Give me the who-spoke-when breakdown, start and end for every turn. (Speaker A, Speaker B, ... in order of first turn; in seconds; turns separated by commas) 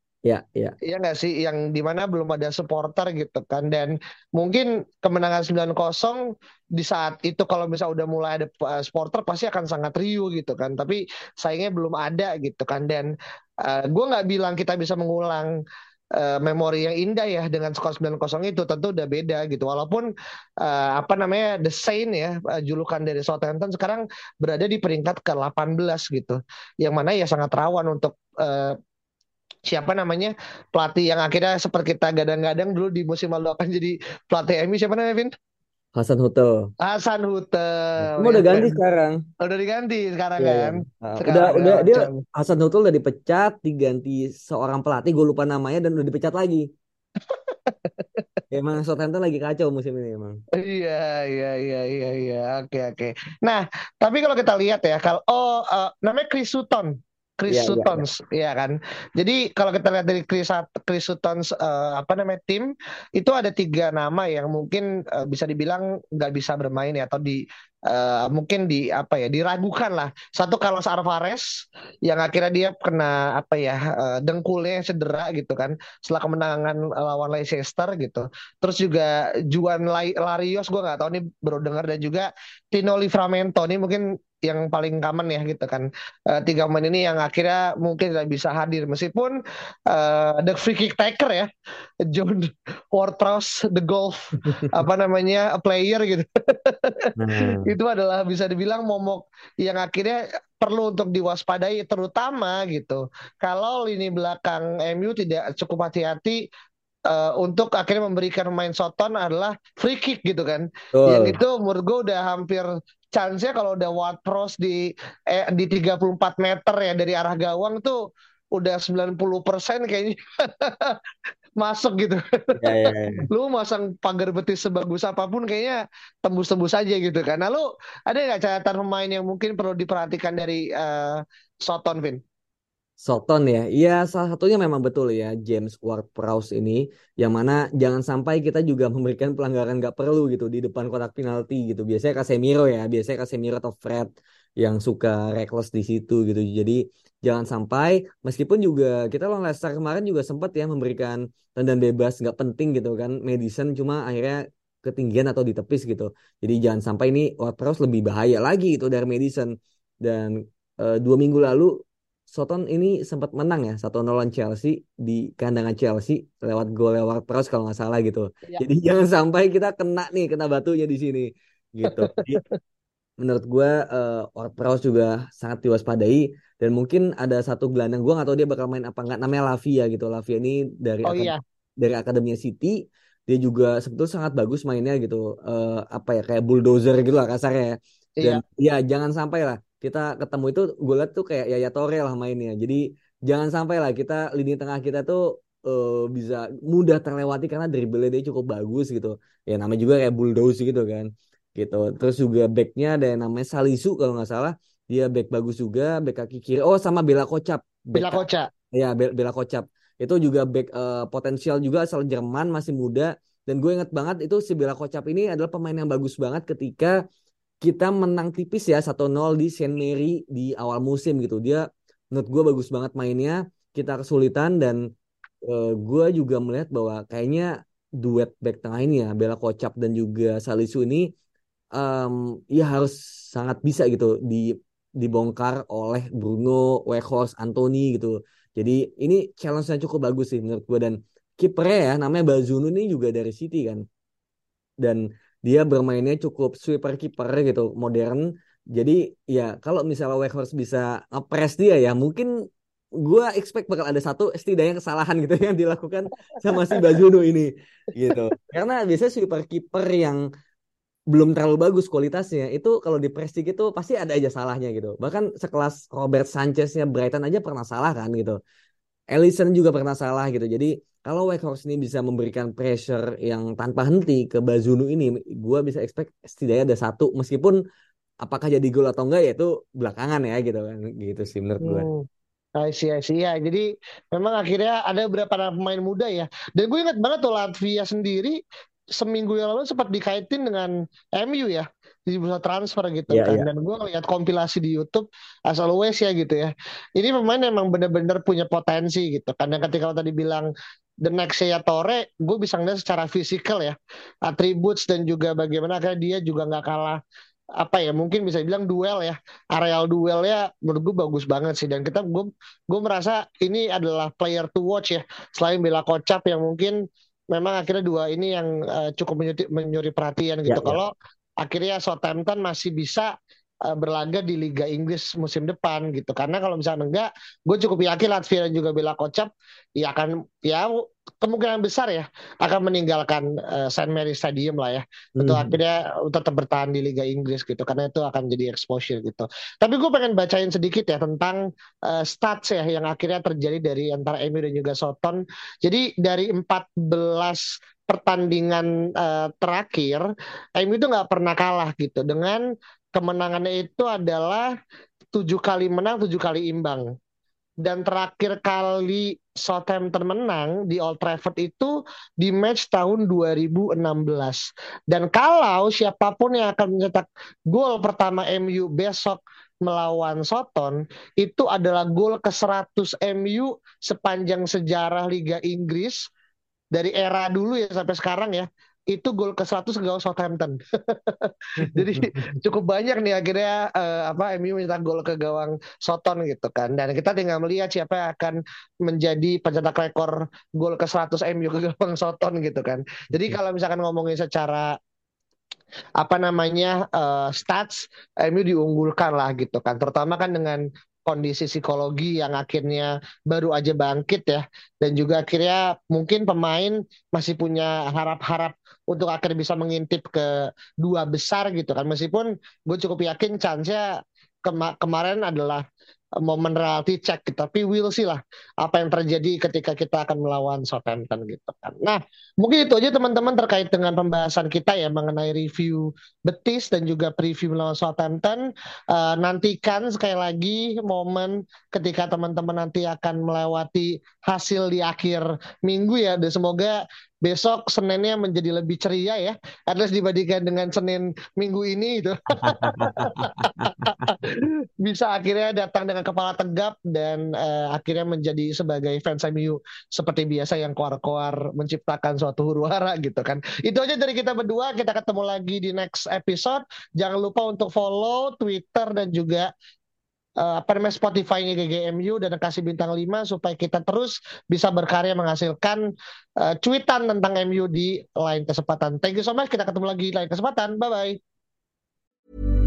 Speaker A: 0.2-0.8, Speaker B: 0.8-6.2, Speaker B: 6.8-15.5, Speaker B: 16.1-20.1, Speaker B: 20.6-28.8, Speaker B: 29.6-35.3, Speaker A: 36.0-36.7, Speaker B: 36.8-38.8, Speaker A: 38.0-39.2, Speaker B: 39.4-42.2, Speaker A: 40.4-46.7, Speaker B: 47.5-48.2, Speaker A: 48.5-50.4, Speaker B: 50.5-89.4, Speaker A: 57.5-58.0, Speaker B: 89.9-91.5, Speaker B: 92.0-106.4, Speaker A: 97.2-97.7, Speaker B: 107.1-118.0, Speaker A: 110.9-111.4, Speaker B: 118.5-121.0, Speaker B: 121.6-122.6, Speaker A: 122.6-123.3, Speaker B: 123.3-132.2, Speaker A: 133.0-161.8, Speaker A: 162.3-172.4, Speaker B: 171.8-172.5, Speaker A: 173.2-208.2, Speaker B: 181.1-181.4, Speaker B: 207.9-208.5, Speaker A: 208.7-217.0, Speaker A: 217.6-224.8, Speaker A: 225.4-231.1, Speaker A: 231.7-243.8, Speaker A: 244.8-252.3, Speaker A: 253.0-260.2, Speaker A: 261.1-268.4, Speaker A: 269.1-277.6, Speaker A: 278.2-281.9, Speaker B: 281.6-288.4, Speaker B: 288.9-300.5, Speaker A: 293.1-293.5, Speaker B: 301.0-303.8, Speaker B: 304.3-307.0, Speaker B: 307.6-323.1, Speaker A: 320.5-320.8, Speaker B: 323.6-352.4, Speaker A: 335.2-335.6, Speaker B: 352.9-354.5, Speaker B: 355.1-356.9, Speaker B: 357.6-376.1, Speaker B: 376.7-394.7, Speaker A: 381.6-382.4, Speaker B: 396.0-415.6, Speaker B: 416.2-459.5, Speaker A: 442.3-444.1, Speaker B: 460.4-465.8, Speaker B: 466.4-471.2